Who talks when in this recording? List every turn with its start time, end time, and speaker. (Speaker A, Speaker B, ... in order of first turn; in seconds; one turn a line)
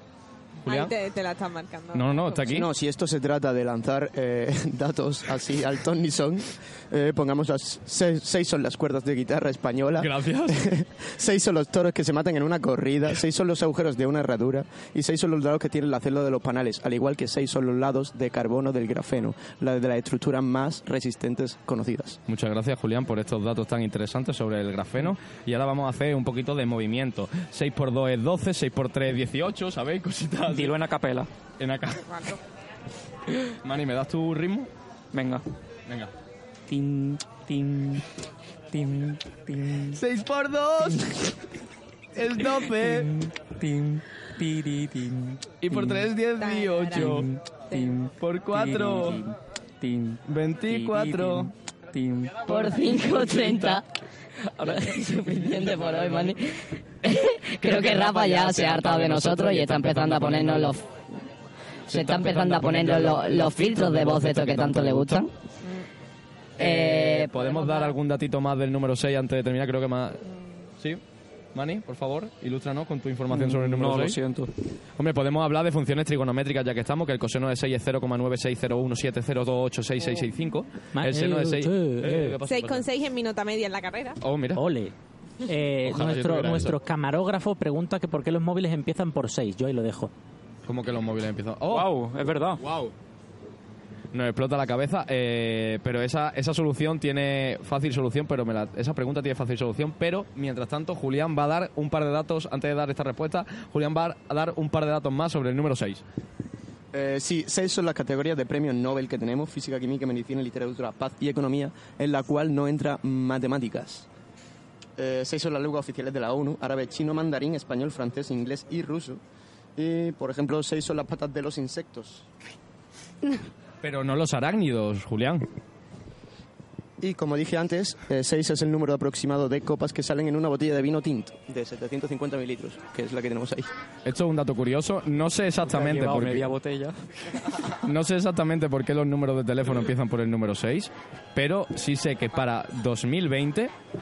Speaker A: 0.6-0.9
Speaker B: 0.7-2.5
Speaker A: 1.9-2.7
Speaker C: 2.5-22.2
Speaker A: 10.0-10.6
Speaker A: 22.3-30.8
Speaker D: 30.4-31.3
Speaker A: 31.6-32.1
Speaker A: 33.6-34.7
Speaker D: 35.1-35.4
Speaker A: 35.9-36.1
Speaker D: 36.7-38.0
Speaker D: 38.7-40.0
Speaker A: 39.9-41.1
Speaker A: 42.1-43.1
Speaker D: 42.4-46.0
Speaker A: 45.6-47.3
Speaker B: 46.4-47.9
Speaker D: 47.0-52.5
Speaker A: 48.2-49.2
Speaker A: 50.3-51.5
Speaker E: 52.5-53.8
Speaker D: 54.5-56.3
Speaker E: 54.7-60.9
Speaker A: 57.6-60.7
Speaker D: 58.7-59.6
Speaker E: 61.9-65.3
Speaker A: 61.9-65.3
Speaker E: 66.6-67.8
Speaker A: 66.6-70.2
Speaker B: 67.4-67.8
Speaker A: 71.5-74.2
Speaker D: 73.3-74.5
Speaker A: 75.0-82.8
Speaker F: 80.9-82.3
Speaker B: 82.5-84.2
Speaker A: 84.2-84.6
Speaker F: 84.5-84.9
Speaker F: 85.5-90.1
Speaker A: 85.8-86.8
Speaker A: 90.7-91.9
Speaker D: 91.7-92.6
Speaker A: 92.6-92.9
Speaker A: 94.1-106.0
Speaker C: 106.9-114.1
Speaker C: 115.0-119.2
Speaker C: 119.8-122.2
Speaker A: 123.8-125.4
Speaker C: 127.0-133.7
Speaker A: 134.0-136.5
Speaker D: 135.6-137.0
Speaker A: 137.8-143.7